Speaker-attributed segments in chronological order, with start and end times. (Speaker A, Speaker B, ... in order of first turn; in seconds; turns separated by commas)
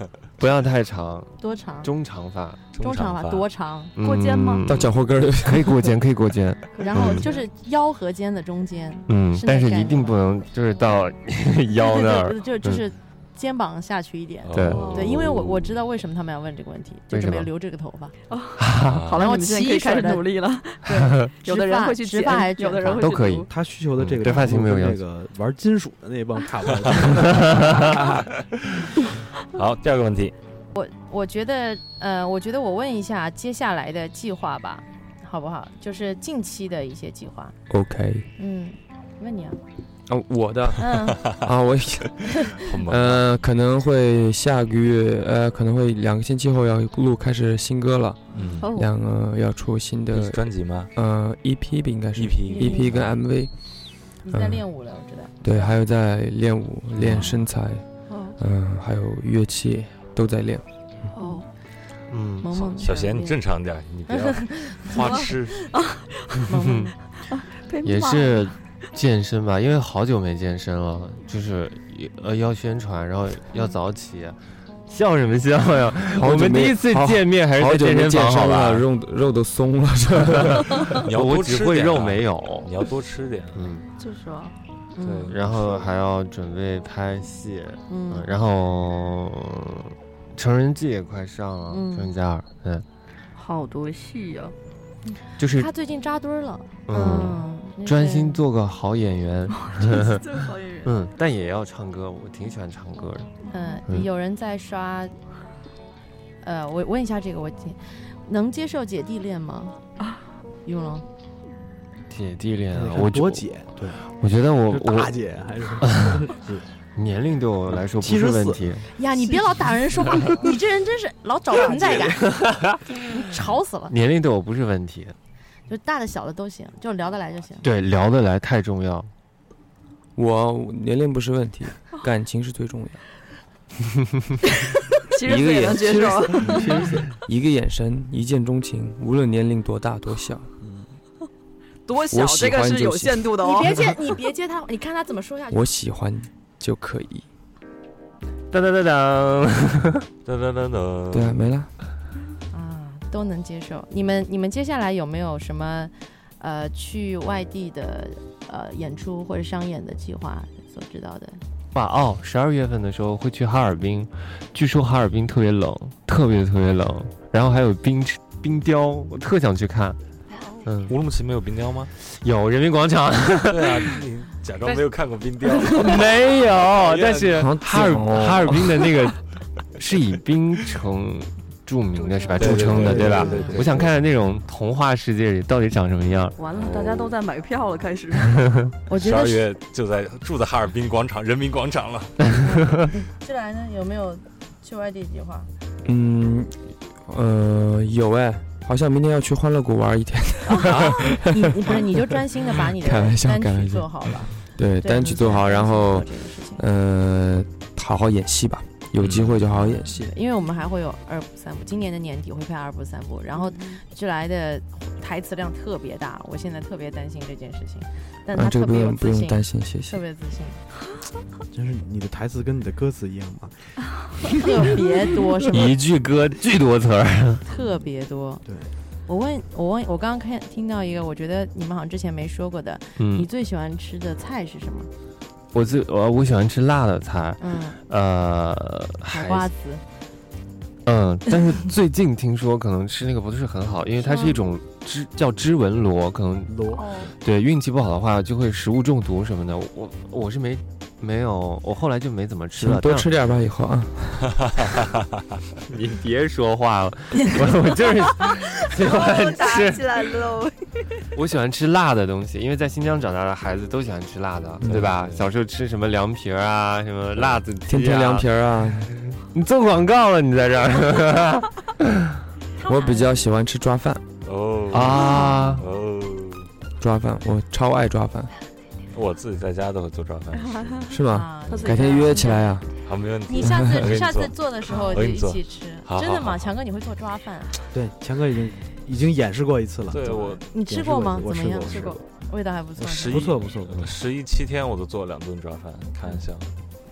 Speaker A: 0.4-2.6, Speaker B: 1.4-1.9, Speaker C: 2.7-3.5, Speaker B: 2.8-4.0, Speaker A: 4.0-7.3, Speaker D: 4.0-4.8, Speaker E: 4.7-5.9, Speaker D: 6.7-7.5, Speaker B: 6.8-10.1, Speaker A: 9.1-12.8, Speaker B: 11.8-18.1, Speaker C: 14.4-15.4, Speaker A: 14.6-15.6, Speaker D: 14.7-15.2, Speaker A: 17.1-17.5, Speaker D: 18.3-23.5, Speaker A: 18.6-19.1, Speaker C: 18.9-19.3, Speaker B: 19.2-20.3, Speaker B: 20.8-23.5, Speaker A: 22.9-23.5, Speaker F: 23.5-28.4, Speaker A: 24.0-25.0, Speaker C: 24.0-24.3, Speaker A: 27.2-28.0, Speaker C: 29.5-30.4, Speaker B: 30.7-37.5, Speaker E: 37.7-38.3, Speaker B: 38.4-39.6, Speaker E: 40.1-53.5, Speaker B: 40.8-41.2, Speaker C: 42.6-43.2, Speaker C: 48.3-48.7, Speaker C: 50.1-50.9, Speaker C: 52.1-53.1, Speaker D: 52.6-52.9, Speaker E: 54.1-54.6, Speaker B: 54.3-55.8, Speaker E: 55.4-57.9, Speaker A: 57.0-57.3, Speaker C: 57.0-57.3, Speaker D: 58.1-58.4, Speaker E: 58.4-60.6, Speaker D: 61.1-61.5, Speaker A: 62.1-62.5, Speaker B: 62.4-63.4, Speaker C: 62.5-65.7, Speaker B: 64.1-64.9, Speaker D: 64.9-66.5, Speaker B: 66.5-67.0, Speaker A: 66.5-66.9, Speaker D: 67.3-68.5, Speaker A: 67.8-78.9, Speaker E: 76.1-80.9, Speaker A: 80.4-82.7, Speaker C: 81.0-83.8, Speaker A: 83.5-83.8, Speaker D: 84.0-84.5, Speaker B: 85.0-85.3, Speaker C: 85.0-85.9, Speaker A: 85.3-92.8, Speaker B: 87.9-88.3, Speaker B: 91.7-92.1, Speaker D: 93.4-94.5, Speaker B: 95.1-98.4, Speaker A: 95.4-95.7, Speaker A: 96.9-100.3, Speaker D: 99.6-101.0, Speaker A: 100.8-103.3, Speaker D: 103.5-103.8, Speaker B: 103.5-105.2, Speaker B: 106.4-109.8, Speaker B: 110.7-111.0, Speaker A: 112.1-113.5, Speaker F: 112.7-114.0, Speaker A: 114.0-115.2, Speaker F: 114.7-116.7, Speaker A: 115.8-116.3, Speaker A: 117.0-118.9, Speaker F: 118.0-118.7, Speaker B: 119.0-122.4, Speaker D: 119.3-119.6, Speaker A: 121.7-122.8, Speaker D: 121.7-122.0, Speaker B: 122.9-123.9, Speaker A: 123.9-125.2, Speaker B: 125.7-127.7, Speaker A: 127.6-129.1, Speaker E: 130.2-133.0, Speaker D: 134.5-137.0, Speaker E: 135.2-140.5, Speaker F: 136.5-137.1, Speaker D: 141.9-144.1, Speaker E: 142.1-143.2, Speaker B: 143.4-145.6, Speaker E: 145.5-147.3, Speaker A: 148.5-150.1, Speaker C: 150.2-151.5, Speaker E: 151.1-151.7, Speaker B: 152.5-161.4, Speaker A: 161.7-170.0, Speaker A: 170.7-170.9, Speaker C: 170.9-171.9, Speaker A: 172.0-173.9, Speaker C: 173.5-177.5, Speaker A: 175.6-179.2, Speaker E: 177.4-178.8, Speaker A: 179.8-186.4, Speaker D: 182.0-182.5, Speaker C: 182.3-184.0, Speaker E: 182.4-183.3, Speaker F: 182.4-183.6, Speaker B: 183.2-183.4, Speaker D: 186.4-188.4, Speaker C: 186.5-187.2, Speaker A: 188.3-188.7, Speaker B: 188.9-189.4, Speaker C: 188.9-192.4, Speaker B: 192.4-195.5, Speaker E: 195.8-210.1, Speaker D: 200.6-200.8, Speaker B: 200.7-206.6, Speaker C: 209.0-209.4, Speaker B: 209.5-220.7, Speaker D: 213.4-213.8, Speaker E: 218.3-220.0, Speaker F: 221.5-223.6, Speaker B: 224.3-225.8, Speaker A: 225.5-227.4, Speaker B: 227.5-228.4, Speaker F: 228.4-228.7, Speaker B: 229.1-234.9, Speaker A: 233.0-233.3, Speaker A: 235.5-239.5, Speaker B: 237.4-237.8, Speaker B: 239.1-239.8, Speaker A: 240.9-253.1, Speaker B: 244.0-244.4, Speaker F: 246.5-246.9, Speaker D: 246.8-247.1, Speaker E: 252.6-254.4, Speaker A: 255.7-260.1, Speaker D: 258.7-261.0, Speaker A: 261.1-268.3, Speaker E: 264.6-264.9, Speaker C: 264.6-265.3, Speaker C: 267.2-267.4, Speaker E: 267.7-268.9, Speaker A: 269.2-272.0, Speaker E: 272.6-274.0, Speaker C: 274.2-276.5, Speaker A: 274.7-275.6, Speaker D: 275.2-275.5, Speaker E: 276.8-278.3, Speaker C: 278.9-280.9, Speaker D: 280.4-280.9, Speaker E: 280.9-282.7, Speaker B: 281.1-282.6, Speaker D: 281.5-282.3, Speaker C: 282.8-286.6, Speaker B: 283.3-287.6, Speaker E: 283.4-283.9, Speaker D: 284.7-285.0, Speaker F: 287.7-292.0, Speaker C: 289.9-290.5, Speaker B: 290.5-293.3, Speaker C: 292.8-296.5, Speaker F: 293.1-293.9